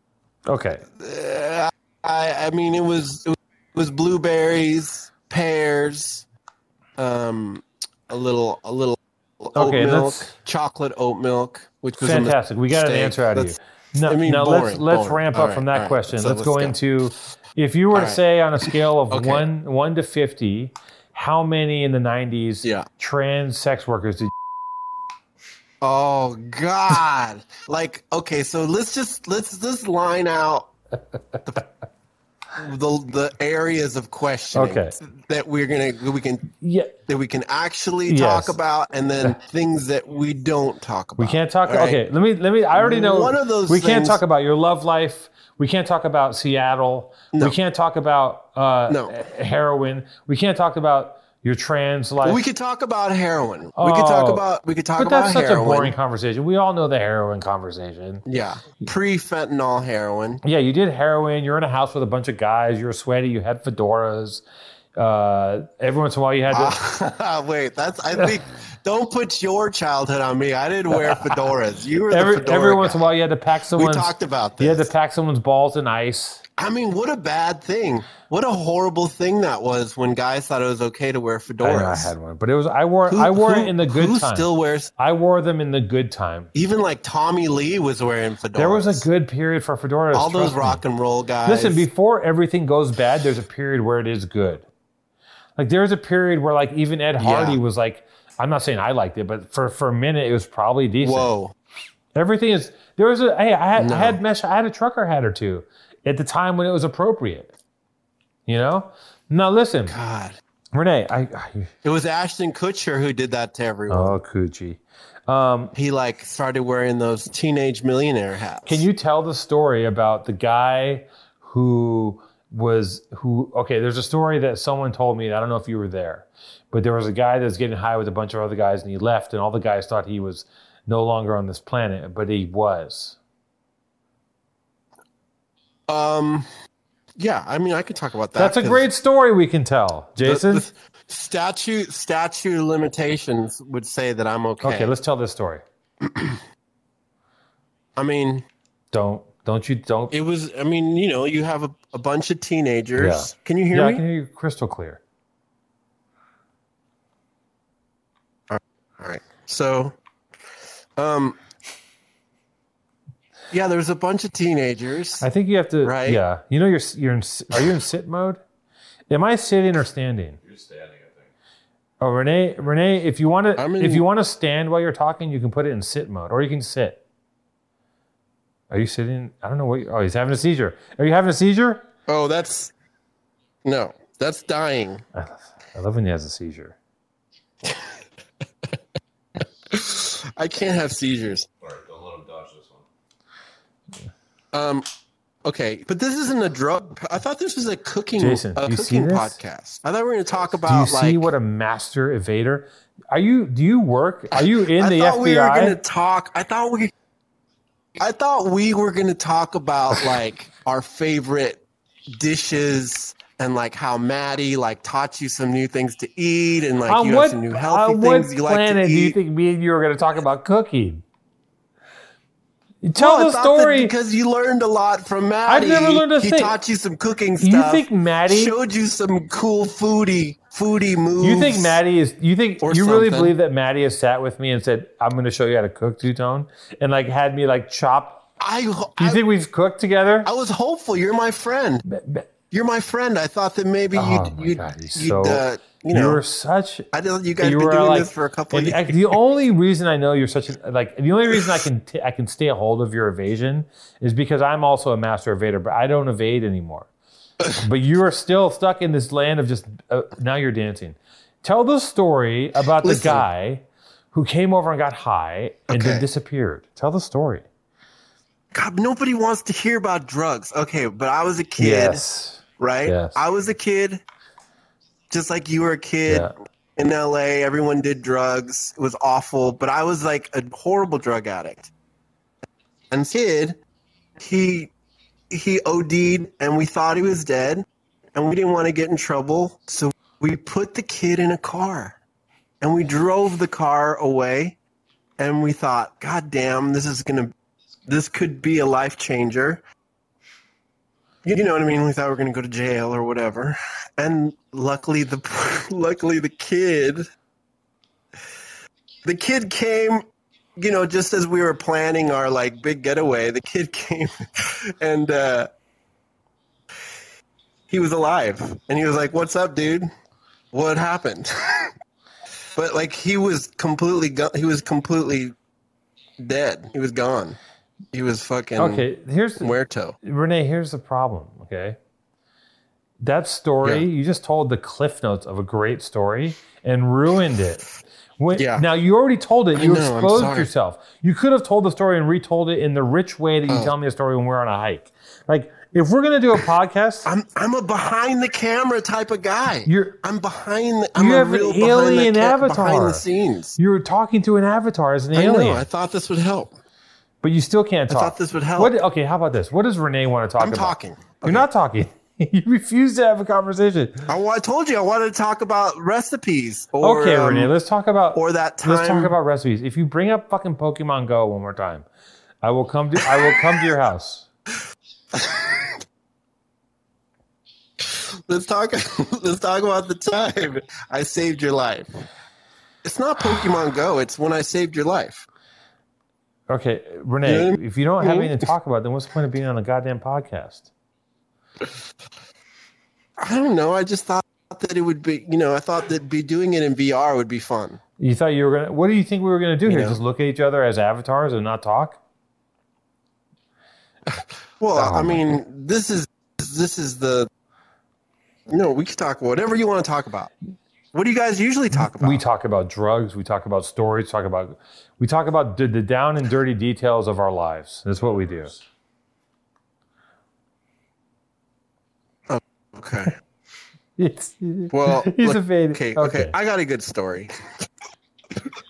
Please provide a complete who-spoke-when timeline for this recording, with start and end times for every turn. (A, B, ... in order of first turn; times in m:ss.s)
0:00.5-0:00.8 A
0:01.0-0:06.3 B
0:07.0-0:13.5 B
0:09.6-0:10.3 A
0:12.0-0:24.3 A
0:14.0-0:16.8 B
0:17.9-0:18.2 B
0:19.1-0:19.5 B
0:25.8-0:30.7 B
0:32.6-0:36.5 B
0:34.5-0:35.0 A
0:36.6-0:36.9 A
0:37.1-0:42.0 B
0:38.1-0:38.6 A
0:41.2-0:52.4 A
0:42.8-0:44.2 B
0:52.2-0:56.0 B
0:53.8-0:54.4 A
0:55.0-0:58.2 A
0:58.3-1:00.4 B
1:00.4-1:04.4 A
1:05.0-1:06.8 A
1:06.5-1:13.0 B
1:12.1-1:16.4 A
1:13.7-1:14.9 B
1:16.6-1:22.1 B
1:21.6-1:24.5 A
1:23.1-1:24.9 B
1:25.0-1:26.5 A
1:26.5-1:29.1 B
1:28.6-1:30.8 A
1:30.1-1:31.8 B
1:31.5-1:34.7 A
1:35.6-1:41.3 A
1:37.2-1:37.6 B
1:41.0-1:41.6 B
1:42.2-1:47.5 A
1:43.8-1:44.2 B
1:48.5-1:50.0 A
1:49.9-1:50.4 B
1:50.7-1:51.7 A
1:51.8-1:54.2 B
1:53.9-1:55.7 A
1:55.8-1:58.8 B
1:58.7-2:13.2 A
2:15.9-2:16.5 B
2:17.2-2:18.8 B
2:18.4-2:20.7 A
2:20.2-2:24.9 B
2:24.6-2:25.6 A
2:26.0-2:26.4 B
2:28.0-2:28.5 B
2:28.9-2:30.1 A
2:30.1-2:34.0 B
2:33.0-2:35.0 A
2:38.5-2:40.0 B
2:41.0-2:41.4 B
2:43.5-2:45.2 B
2:45.2-2:48.4 A
2:45.8-2:46.2 B
2:49.1-2:50.4 A
2:50.4-2:51.3 C
2:52.0-2:57.0 A
2:53.6-2:54.1 B
2:58.7-3:01.9 A
3:02.1-3:02.7 B
3:03.6-3:05.0 B
3:05.2-3:06.8 A
3:07.6-3:07.9 B
3:09.7-3:11.5 B
3:11.6-3:12.9 C
3:14.5-3:14.9 B
3:15.4-3:21.3 B
3:18.2-3:19.4 A
3:20.7-3:25.8 A
3:24.4-3:26.9 B
3:28.0-3:39.2 B
3:36.9-3:41.0 A
3:42.8-3:43.9 A
3:43.0-3:51.8 B
3:45.5-3:46.6 A
3:47.4-3:48.6 A
3:51.2-3:58.3 A
3:52.6-3:53.4 B
3:58.4-3:59.2 B
3:59.0-4:00.3 A
4:00.2-4:01.8 B
4:01.9-4:02.3 A
4:02.5-4:06.2 B
4:04.0-4:06.9 A
4:06.9-4:09.1 B
4:07.4-4:16.9 A
4:17.6-4:27.4 A
4:22.8-4:23.2 B
4:25.7-4:26.0 B
4:28.5-4:32.0 B
4:31.6-4:33.2 A
4:32.6-4:34.0 B
4:35.1-4:41.7 B
4:36.1-4:36.3 A
4:42.9-4:43.6 B
4:44.2-4:44.7 B
4:45.3-4:52.0 B
4:52.6-4:54.6 B
4:55.2-4:57.3 B
4:57.9-4:59.6 B
5:01.2-5:07.1 B
5:09.0-5:10.0 B
5:10.6-5:15.5 B
5:17.7-5:19.9 B
5:20.5-5:21.7 B
5:22.6-5:25.3 B
5:26.2-5:27.4 B
5:27.9-5:28.9 B
5:28.6-5:31.8 A
5:29.4-5:30.0 B
5:33.0-5:37.6 A
5:38.2-5:47.1 A
5:38.4-5:38.6 B
5:39.6-5:40.5 B
5:43.5-5:43.7 B
5:47.1-5:53.6 B
5:49.7-5:50.0 A
5:51.0-5:53.0 A
5:53.6-5:55.7 A
5:55.2-5:56.6 B
5:57.2-6:04.1 A
5:57.9-5:58.8 B
6:00.4-6:01.5 B
6:04.1-6:07.5 B
6:06.8-6:11.9 A
6:08.1-6:09.2 B
6:12.4-6:14.3 A
6:15.1-6:15.8 B
6:17.8-6:22.0 B
6:22.8-6:25.3 B
6:26.5-6:30.7 A
6:27.2-6:28.4 B
6:33.2-6:37.8 B
6:38.0-6:42.0 A
6:39.7-6:40.0 B
6:44.1-6:47.3 B
6:44.8-6:45.2 A
6:48.5-6:50.3 B
6:50.9-6:52.2 B
6:52.0-6:58.6 A
7:02.3-7:03.1 B
7:04.0-7:06.3 A
7:04.7-7:07.3 B